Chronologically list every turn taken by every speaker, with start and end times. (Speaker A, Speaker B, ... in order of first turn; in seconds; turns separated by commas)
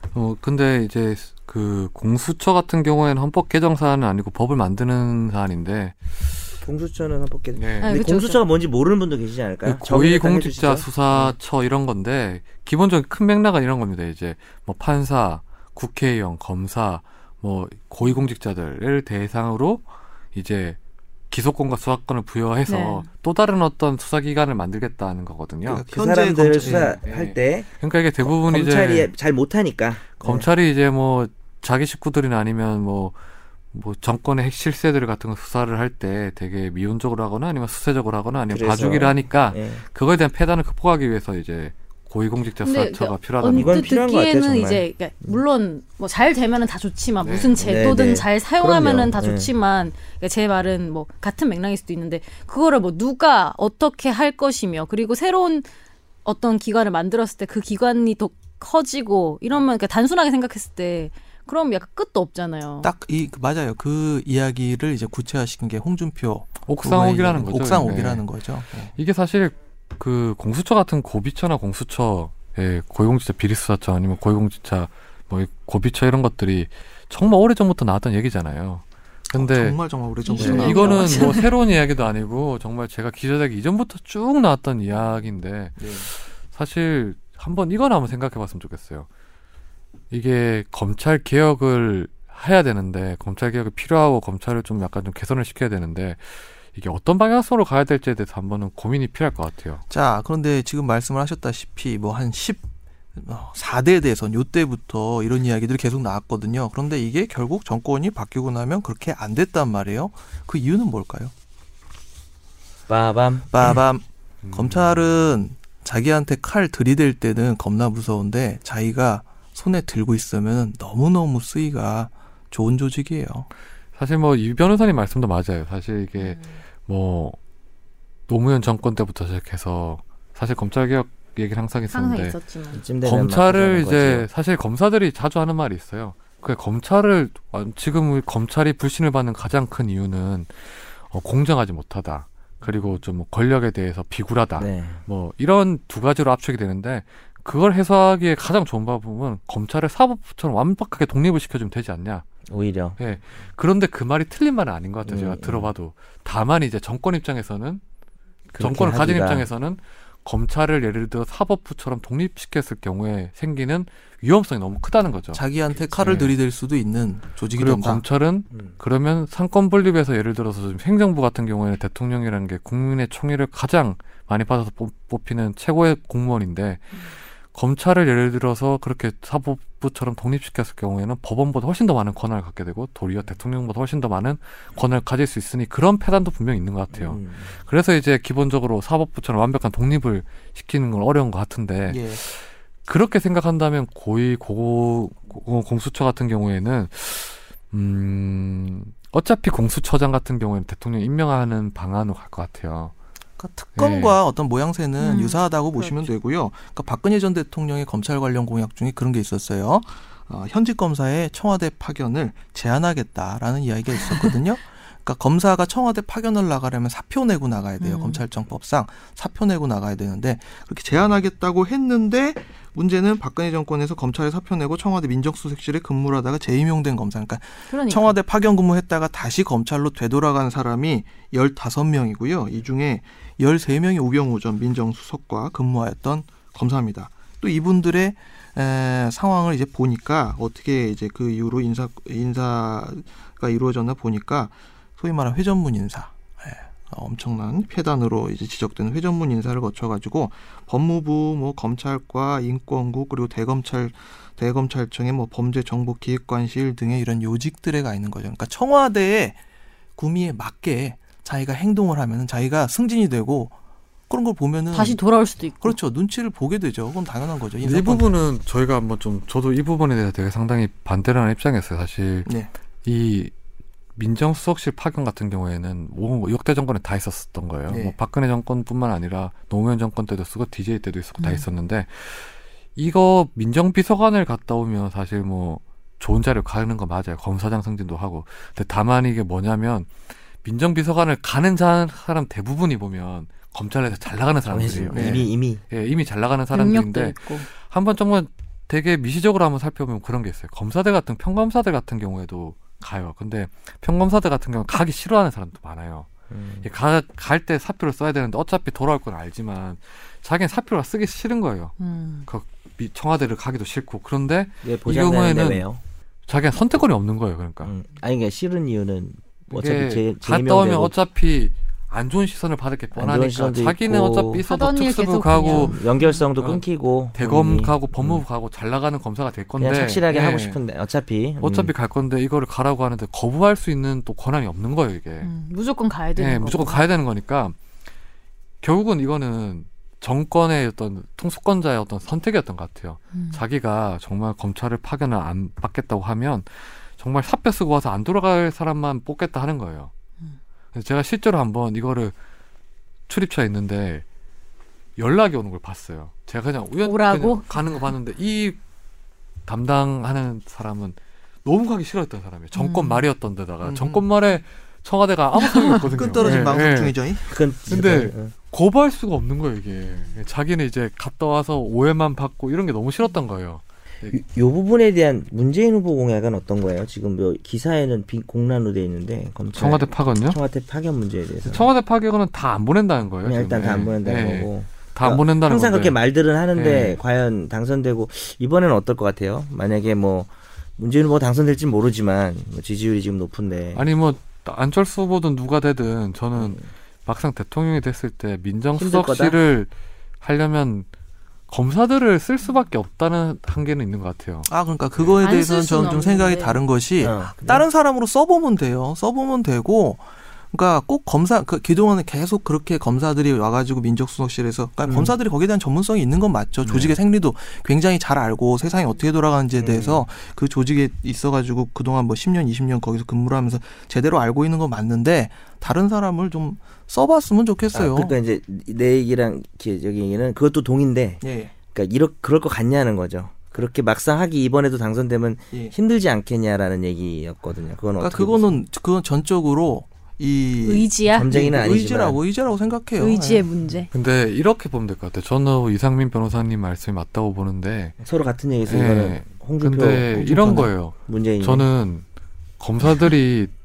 Speaker A: 0.1-6.1, Speaker B: 6.6-10.9, Speaker A: 7.6-8.0, Speaker C: 7.8-8.4, Speaker A: 9.6-20.8, Speaker A: 21.3-25.8, Speaker C: 22.7-23.1, Speaker D: 25.7-27.0, Speaker B: 25.9-27.7, Speaker A: 26.6-29.1, Speaker B: 28.2-30.5, Speaker A: 30.2-33.1, Speaker A: 33.7-43.9, Speaker B: 38.5-39.8, Speaker C: 42.6-55.7, Speaker B: 43.5-45.4, Speaker A: 47.2-47.7, Speaker B: 47.6-49.5, Speaker C: 56.2-62.9, Speaker D: 62.8-68.9, Speaker A: 66.7-68.2, Speaker A: 69.0-79.8, Speaker D: 79.3-81.5, Speaker C: 80.2-81.5, Speaker A: 80.3-89.1, Speaker D: 85.8-86.1, Speaker A: 90.1-99.8, Speaker D: 99.9-102.6, Speaker D: 103.2-111.3, Speaker B: 112.9-113.8, Speaker D: 113.5-123.5, Speaker A: 114.4-115.0, Speaker A: 124.0-127.4, Speaker C: 126.2-126.6, Speaker A: 128.3-132.4, Speaker C: 131.9-132.8, Speaker B: 132.7-134.3, Speaker A: 133.0-152.3, Speaker B: 144.6-145.0, Speaker B: 152.5-153.0, Speaker A: 153.0-157.8, Speaker B: 155.1-155.7, Speaker B: 158.5-159.5, Speaker A: 158.6-165.4, Speaker D: 165.3-168.0, Speaker A: 166.0-166.3, Speaker A: 167.6-202.9, Speaker B: 186.9-187.6, Speaker D: 191.9-192.2, Speaker D: 203.4-259.4, Speaker A: 203.8-204.2, Speaker C: 205.0-206.1, Speaker C: 217.8-218.2, Speaker C: 227.7-228.2, Speaker D: 260.0-263.6, Speaker D: 264.1-265.0, Speaker C: 264.7-265.8, Speaker D: 265.6-268.1, Speaker A: 267.6-272.3, Speaker A: 272.9-273.3, Speaker A: 274.0-289.9, Speaker D: 277.7-278.0, Speaker C: 281.2-281.5, Speaker A: 290.4-306.1, Speaker B: 294.5-295.6, Speaker D: 294.9-295.3, Speaker C: 296.5-297.5, Speaker B: 306.3-306.7, Speaker A: 306.6-311.8, Speaker C: 311.8-312.3, Speaker A: 312.3-315.6, Speaker B: 314.6-315.8, Speaker A: 316.3-317.7, Speaker B: 317.6-320.9, Speaker A: 319.5-325.8, Speaker B: 322.9-324.4, Speaker C: 324.5-326.2, Speaker B: 325.5-328.2, Speaker A: 326.4-326.6, Speaker A: 327.1-330.6, Speaker B: 329.6-331.7, Speaker A: 331.4-335.3, Speaker C: 335.2-336.8, Speaker A: 336.2-337.6, Speaker A: 338.6-349.9, Speaker C: 343.1-343.4, Speaker A: 350.7-352.1, Speaker A: 353.1-354.0, Speaker A: 355.0-358.6, Speaker C: 356.9-357.6, Speaker A: 359.5-367.0, Speaker C: 362.6-363.1, Speaker D: 363.6-364.0, Speaker C: 365.4-365.8, Speaker D: 365.9-367.3, Speaker B: 367.3-368.3, Speaker A: 367.7-374.2, Speaker B: 374.1-381.7, Speaker A: 379.6-380.4, Speaker A: 381.4-386.0, Speaker B: 383.2-393.8, Speaker A: 386.5-387.0, Speaker A: 393.8-399.7, Speaker B: 396.4-396.6, Speaker B: 398.8-399.4, Speaker A: 400.2-400.9, Speaker A: 401.5-404.5, Speaker D: 404.5-428.1, Speaker C: 405.2-406.6, Speaker B: 407.0-407.6, Speaker B: 414.9-415.1, Speaker B: 416.6-416.9, Speaker B: 419.6-420.1, Speaker B: 427.7-431.2, Speaker D: 431.2-431.5, Speaker B: 431.7-438.6, Speaker D: 438.0-443.5, Speaker C: 440.6-441.3, Speaker B: 441.1-442.2, Speaker C: 443.0-443.9, Speaker A: 443.9-448.0, Speaker B: 448.0-451.7, Speaker A: 448.7-452.0, Speaker A: 452.6-453.5